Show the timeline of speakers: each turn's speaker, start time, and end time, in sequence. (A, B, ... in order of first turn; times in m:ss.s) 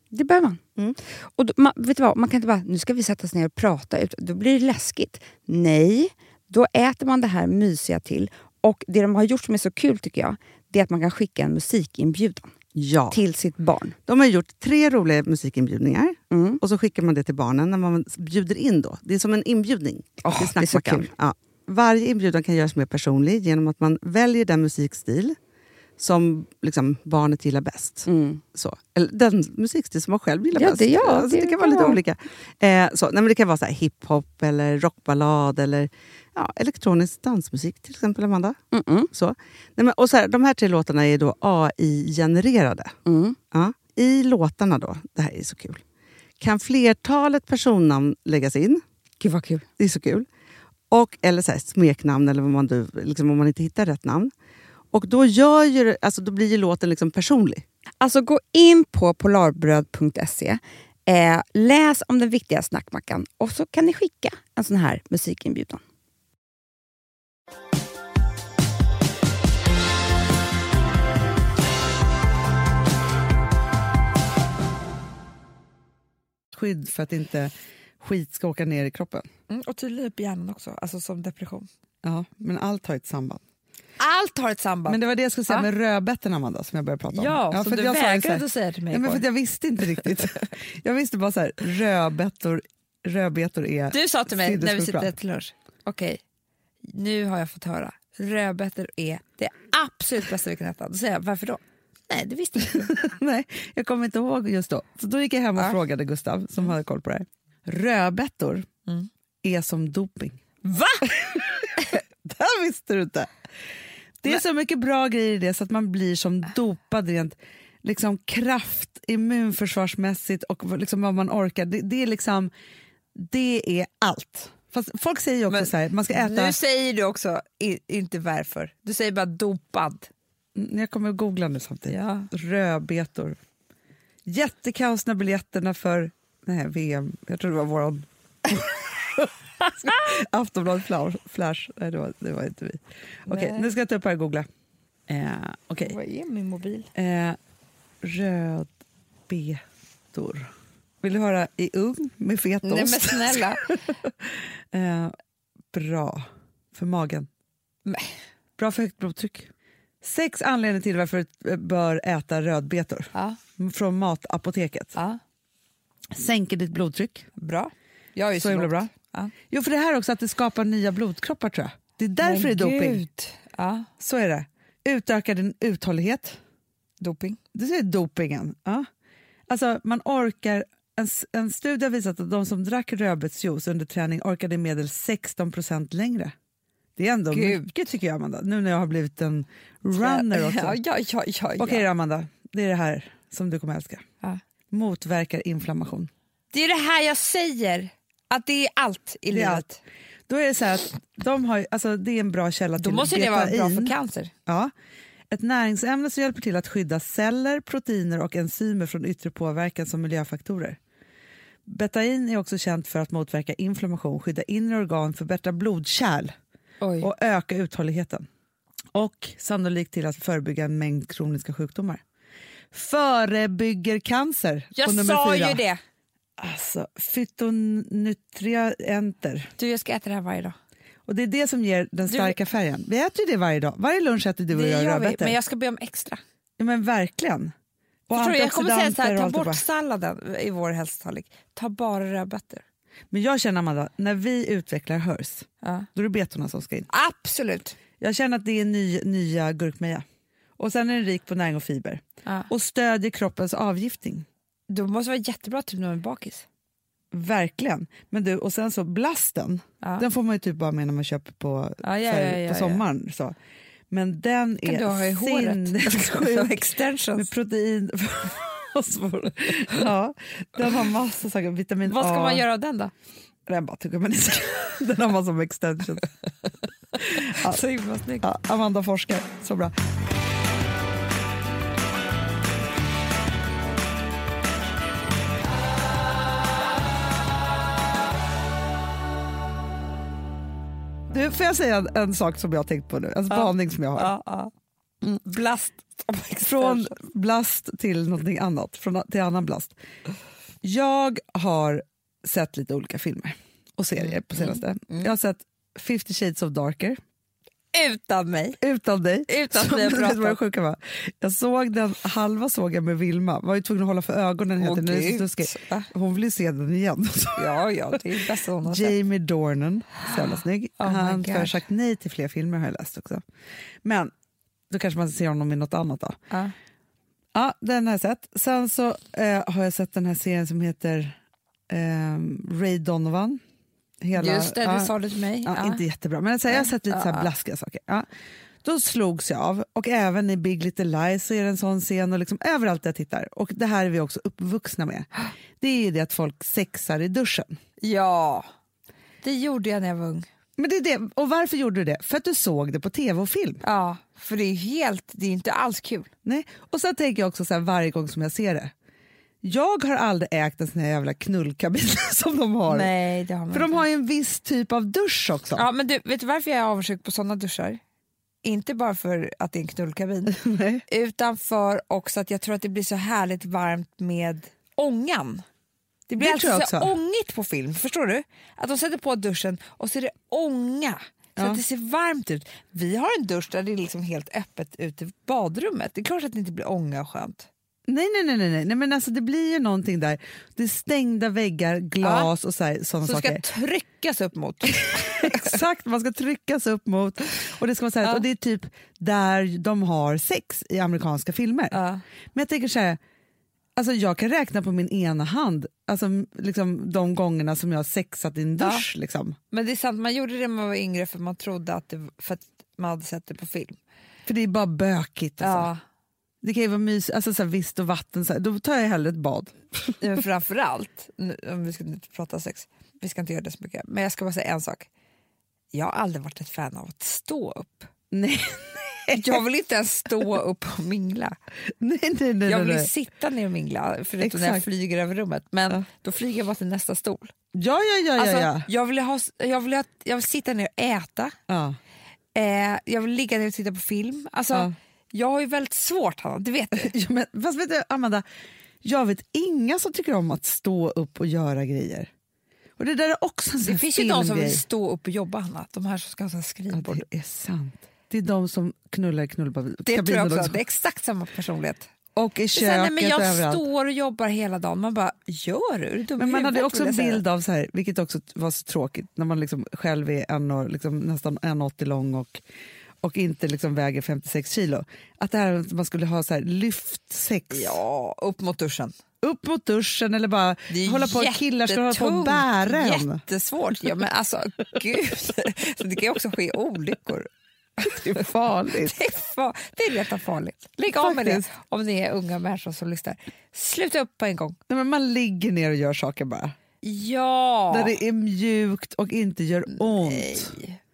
0:00.1-0:00.6 A
0:01.2-0:12.5 A
0:12.7-0:13.2 B
0:13.1-0:14.0 A
0:14.1-0:25.4 B
0:16.3-0:16.6 A
0:20.2-0:21.1 A
0:26.0-0:38.6 B
0:28.1-0:28.4 A
0:30.6-0:32.0 A
0:38.7-0:39.1 A
0:39.1-0:43.0 B
0:43.1-0:43.4 A
0:43.5-0:45.8 B
0:46.4-0:48.8 B
0:49.2-0:49.6 A
0:49.8-0:50.3 B
0:50.9-0:54.3 B
0:54.9-0:57.6 B
0:58.0-1:05.8 A
1:16.5-1:19.3 C
1:19.5-1:21.7 D
1:22.0-1:23.4 C
1:24.0-1:25.7 D
1:24.9-1:35.1 C
1:27.1-1:29.3 D
1:33.9-1:36.2 D
1:36.8-1:42.9 D
1:42.9-1:48.7 C
1:49.4-1:50.4 C
1:50.6-1:51.1 D
1:51.1-1:53.3 C
1:54.2-2:02.5 C
2:03.1-2:06.6 C
2:05.5-2:10.1 D
2:10.6-2:13.4 C
2:11.9-2:12.3 D
2:14.3-2:24.5 C
2:23.3-2:23.7 D
2:25.1-2:26.0 C
2:25.8-2:26.9 D
2:27.0-2:27.4 C
2:28.0-2:28.7 C
2:29.3-2:29.6 C
2:30.1-2:30.5 C
2:31.0-2:35.1 C
2:32.6-2:33.7 D
2:35.7-2:37.3 C
2:37.8-2:38.2 D
2:38.6-2:39.5 C
2:40.0-2:45.0 C
2:43.1-2:43.4 D
2:46.1-2:47.3 C
2:47.4-2:49.3 D
2:48.3-2:48.9 C
2:49.5-2:53.0 C
2:52.2-2:53.9 D
2:54.0-2:56.4 C
2:57.0-2:57.4 D
2:57.5-2:58.9 C
2:59.5-3:06.3 C
3:07.0-3:10.8 C
3:07.3-3:07.7 D
3:10.0-3:11.8 D
3:11.6-3:14.0 C
3:14.7-3:16.1 C
3:16.5-3:19.8 D
3:19.3-3:19.6 C
3:20.3-3:23.9 C
3:22.8-3:24.3 D
3:24.4-3:24.7 C
3:25.3-3:30.8 C
3:31.7-3:36.3 C
3:36.8-3:37.1 D
3:37.0-3:38.3 C
3:38.9-3:42.0 C
3:42.7-3:45.6 C
3:44.7-3:45.8 D
3:46.4-3:49.5 C
3:49.6-3:50.6 D
3:51.1-3:55.4 C
3:52.1-3:52.4 D
3:54.5-3:56.2 D
3:56.6-3:57.5 C
3:58.1-3:59.6 C
3:58.1-4:02.6 D
4:03.1-4:06.9 C
4:05.6-4:05.9 D
4:06.9-4:07.8 D
4:08.0-4:10.0 C
4:10.6-4:14.3 C
4:12.2-4:12.5 D
4:14.7-4:16.4 D
4:17.1-4:23.4 C
4:21.8-4:22.8 D
4:23.9-4:26.6 C
4:24.6-4:27.3 D
4:27.2-4:32.4 C
4:31.8-4:32.9 D
4:33.5-4:36.1 C
4:37.0-4:37.6 C
4:37.2-4:38.3 D
4:38.2-4:39.7 C
4:51.1-4:54.1 C
4:53.3-4:54.5 D
4:55.2-4:57.0 D
4:56.4-4:59.7 C
5:00.6-5:07.0 C
5:04.0-5:05.1 D
5:07.7-5:08.6 D
5:08.6-5:17.5 C
5:09.3-5:10.4 D
5:14.6-5:15.9 D
5:17.4-5:19.0 D
5:18.6-5:23.2 C
5:20.8-5:21.6 D
5:23.8-5:24.1 C
5:24.7-5:26.2 C
5:27.3-5:31.2 C
5:31.7-5:33.4 C
5:34.0-5:34.9 C
5:34.1-5:35.8 D
5:35.4-5:38.1 C
5:36.5-5:37.3 D
5:38.6-5:45.1 C
5:45.6-5:47.6 C
5:47.8-5:48.5 D
5:49.2-5:50.3 D
5:50.6-5:53.6 C
5:53.6-5:56.1 D
5:56.2-5:58.7 C
5:59.4-6:02.9 C
6:02.7-6:03.8 D
6:03.5-6:05.7 C
6:05.6-6:07.8 D
6:08.4-6:15.4 D
6:10.3-6:10.8 C
6:16.1-6:27.5 D
6:16.2-6:16.9 C
6:21.4-6:21.6 C
6:27.9-6:33.4 C
6:32.0-6:32.3 D
6:33.0-6:35.6 D
6:34.8-6:41.8 C
6:41.7-6:42.0 D
6:42.3-6:43.0 C
6:43.8-6:49.4 C
6:48.6-6:48.8 D
6:49.5-6:53.8 D
6:54.3-6:55.7 C
6:55.4-6:55.8 D
6:56.4-7:00.0 C
7:00.0-7:04.9 D
7:05.7-7:07.9 D
7:08.1-7:09.4 C
7:09.1-7:11.4 D
7:11.8-7:12.9 C
7:12.4-7:17.3 D
7:14.2-7:14.6 C
7:17.5-7:18.7 C
7:18.2-7:21.4 D
7:21.5-7:21.8 C
7:22.4-7:26.9 D
7:26.7-7:28.2 C
7:28.8-7:32.1 C
7:32.8-7:34.6 C
7:33.6-7:37.0 D
7:36.7-7:40.6 C
7:39.8-7:41.9 D
7:42.2-7:43.6 C
7:42.5-7:47.2 D
7:46.2-7:52.4 C
7:53.0-7:57.8 C
7:57.5-7:58.9 D
7:59.2-8:03.2 C
8:00.7-8:14.6 D
8:07.8-8:09.0 C
8:10.9-8:11.5 C
8:14.7-8:16.6 C
8:16.8-8:18.0 D
8:17.7-8:20.6 C
8:19.7-8:20.8 D